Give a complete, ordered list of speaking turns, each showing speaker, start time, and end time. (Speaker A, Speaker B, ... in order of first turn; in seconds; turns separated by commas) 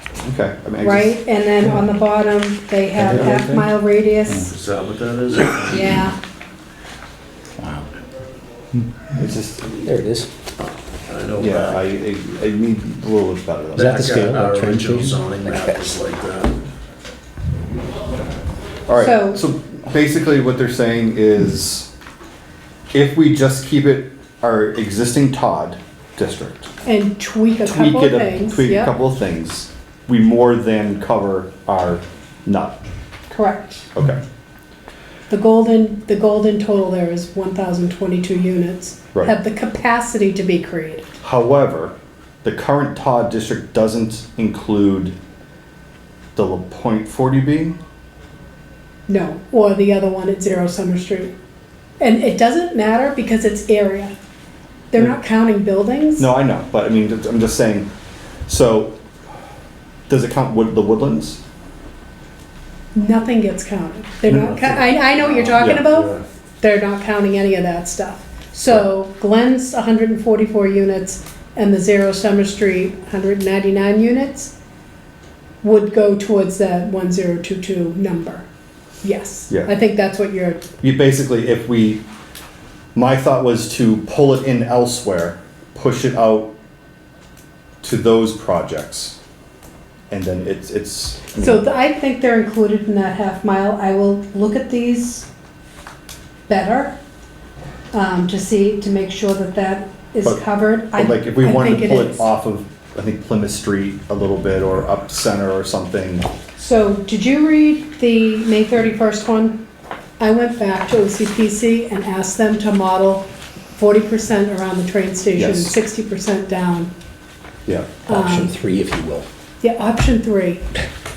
Speaker A: 0.2-1.2, Speaker B: 0.8-4.5, Speaker C: 3.0-3.7, Speaker D: 4.4-6.1, Speaker B: 5.7-6.2, Speaker C: 7.6-7.9, Speaker C: 8.7-9.1, Speaker A: 9.1-9.6, Speaker C: 9.6-10.3, Speaker D: 10.6-11.9, Speaker A: 11.3-14.2, Speaker D: 13.7-16.6, Speaker C: 13.8-16.0, Speaker A: 18.9-21.9, Speaker B: 18.9-19.4, Speaker A: 22.9-26.7, Speaker B: 26.8-28.9, Speaker A: 27.6-32.8, Speaker B: 33.3-33.9, Speaker A: 33.9-34.2, Speaker B: 35.3-41.0, Speaker A: 41.2-45.1, Speaker A: 46.3-47.8, Speaker B: 49.1-51.3, Speaker B: 52.0-54.1, Speaker B: 54.9-56.3, Speaker A: 56.2-57.9, Speaker A: 58.5-59.0, Speaker A: 60.1-61.4, Speaker B: 62.9-74.5, Speaker A: 64.3-64.8, Speaker D: 64.5-66.2, Speaker A: 65.5-65.9, Speaker B: 75.6-78.5, Speaker B: 79.0-80.6, Speaker A: 80.8-82.0, Speaker A: 82.9-86.5, Speaker A: 87.8-89.1, Speaker A: 90.1-91.6, Speaker B: 91.3-95.3, Speaker B: 96.5-97.0, Speaker B: 97.9-102.3, Speaker A: 100.2-106.3, Speaker B: 106.5-109.6, Speaker B: 110.2-116.9, Speaker A: 115.3-115.7, Speaker A: 117.7-118.0, Speaker B: 118.0-118.5, Speaker C: 118.1-119.2, Speaker B: 119.6-120.7